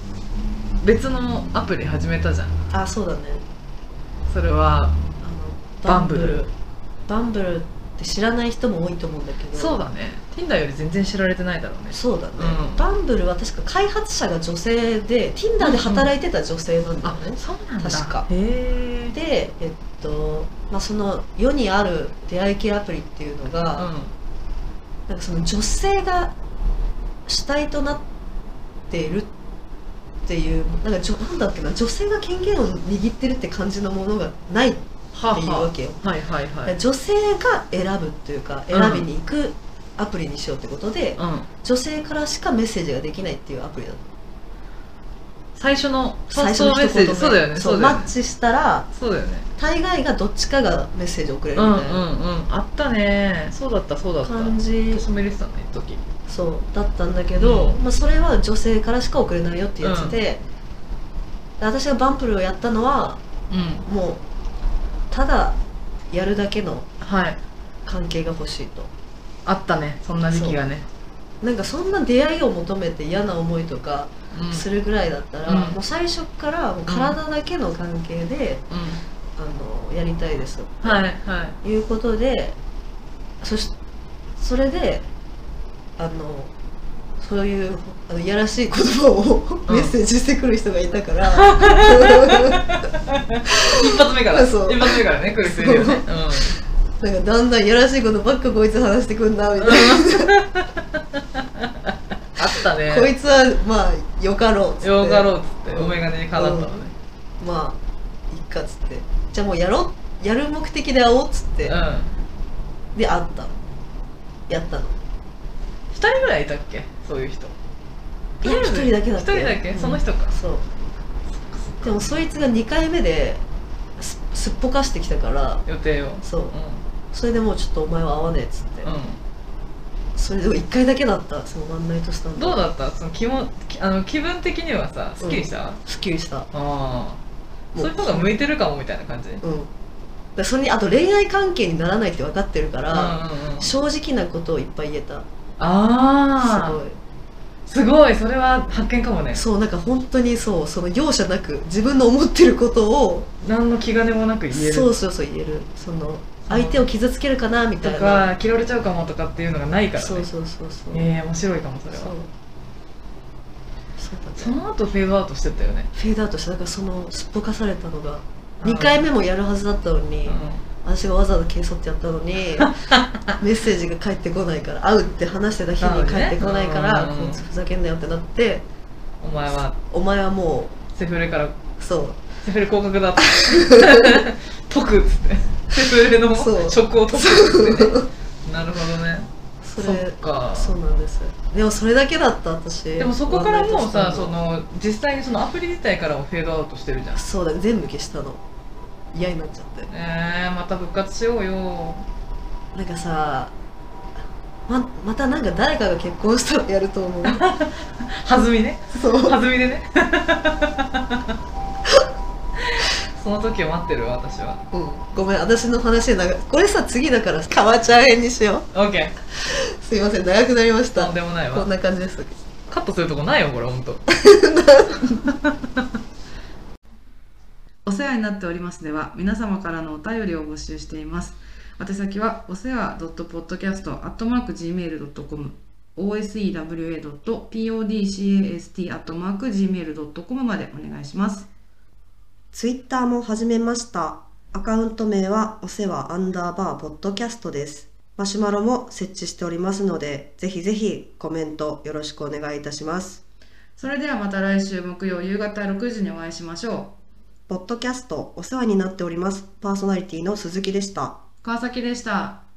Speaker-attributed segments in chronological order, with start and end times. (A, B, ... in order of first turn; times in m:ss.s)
0:00.8-0:02.6 A
0:02.7-0:03.4 B
0:04.3-0:05.0 A
0:05.2-0:06.5 B
0:05.8-0:06.4 A
0:07.1-0:09.8 B
0:09.5-0:12.8 A
0:11.9-0:18.3 B
0:15.6-0:16.1 A
0:17.0-0:19.1 A
0:19.1-0:23.9 B
0:23.8-0:24.1 A
0:25.1-0:26.3 B
0:27.3-0:28.0 B
0:28.9-0:29.3 B
0:30.3-0:36.0 B
0:35.1-0:36.7 A
0:36.6-0:44.1 B
0:38.7-0:39.1 A
0:41.2-0:41.5 A
0:45.5-0:48.1 A
0:46.3-0:48.9 B
0:48.9-0:49.5 A
0:49.6-0:52.0 B
0:51.6-0:56.0 A
0:54.2-0:55.0 B
0:56.3-1:00.4 B
0:57.4-0:57.8 A
0:59.8-1:00.2 A
1:01.6-1:03.2 B
1:03.5-1:03.8 A
1:03.8-1:04.2 B
1:05.1-1:05.6 B
1:06.1-1:06.9 B
1:07.0-1:07.4 A
1:07.8-1:08.9 B
1:09.4-1:10.8 A
1:10.3-1:10.6 B
1:11.4-1:18.6 B
1:14.3-1:14.6 A
1:15.5-1:15.8 A
1:16.9-1:17.2 A
1:18.7-1:19.0 A
1:19.4-1:21.0 B
1:20.8-1:21.6 A
1:21.6-1:22.6 B
1:23.4-1:23.7 B
1:24.4-1:25.1 B
1:26.0-1:26.5 B
1:27.2-1:32.6 B
1:29.7-1:29.9 A
1:31.3-1:36.6 A
1:33.6-1:36.4 B
1:37.0-1:40.3 B
1:39.6-1:43.1 A
1:42.8-1:46.8 B
1:44.8-1:46.9 A
1:47.4-1:47.8 B
1:48.3-1:51.7 B
1:51.6-1:52.1 A
1:52.9-1:53.5 B
1:54.5-1:55.0 B
1:55.9-1:57.5 A
1:58.4-2:00.3 A
1:58.4-2:00.6 B
2:01.5-2:01.9 A
2:01.8-2:03.4 B
2:04.0-2:05.6 B
2:05.6-2:06.8 A
2:06.2-2:06.6 B
2:07.1-2:08.9 B
2:08.8-2:09.2 A
2:10.1-2:12.6 B
2:12.4-2:15.8 A
2:15.2-2:16.5 B
2:16.5-2:17.2 A
2:17.7-2:18.3 B
2:17.8-2:19.4 A
2:19.4-2:19.7 B
2:20.4-2:25.2 B
2:22.9-2:23.7 A
2:25.6-2:26.8 A
2:26.4-2:27.0 B
2:27.7-2:29.4 A
2:29.3-2:33.3 B
2:33.4-2:34.9 A
2:34.5-2:38.3 B
2:36.5-2:36.8 A
2:37.8-2:40.3 A
2:40.0-2:41.1 B
2:40.9-2:42.1 A
2:41.9-2:42.3 B
2:44.0-2:44.6 B
2:44.4-2:45.9 A
2:45.9-2:52.7 B
2:48.6-2:49.1 A
2:50.2-2:50.6 A
2:52.6-2:53.2 A
2:53.3-2:58.6 B
2:55.8-2:57.4 A
2:59.2-2:59.8 A
2:59.8-3:00.8 B
3:00.9-3:01.6 A
3:01.8-3:02.2 B
3:02.4-3:09.3 A
3:03.3-3:04.2 B
3:06.3-3:08.1 B
3:09.6-3:14.3 B
3:09.8-3:10.7 A
3:13.0-3:17.2 A
3:17.1-3:18.4 B
3:19.1-3:19.9 B
3:19.9-3:22.0 A
3:22.7-3:23.5 B
3:24.7-3:27.4 B
3:27.2-3:31.3 A
3:28.9-3:29.4 B
3:32.6-3:34.6 A
3:34.7-3:38.7 B
3:38.7-3:39.1 A
3:39.3-3:42.3 B
3:40.9-3:41.7 A
3:42.7-3:44.0 A
3:44.1-3:45.2 B
3:45.1-3:45.8 A
3:47.8-4:01.5 C
4:02.5-4:13.2 D
4:13.8-4:17.0 C
4:17.5-4:21.2 D
4:21.4-4:22.4 C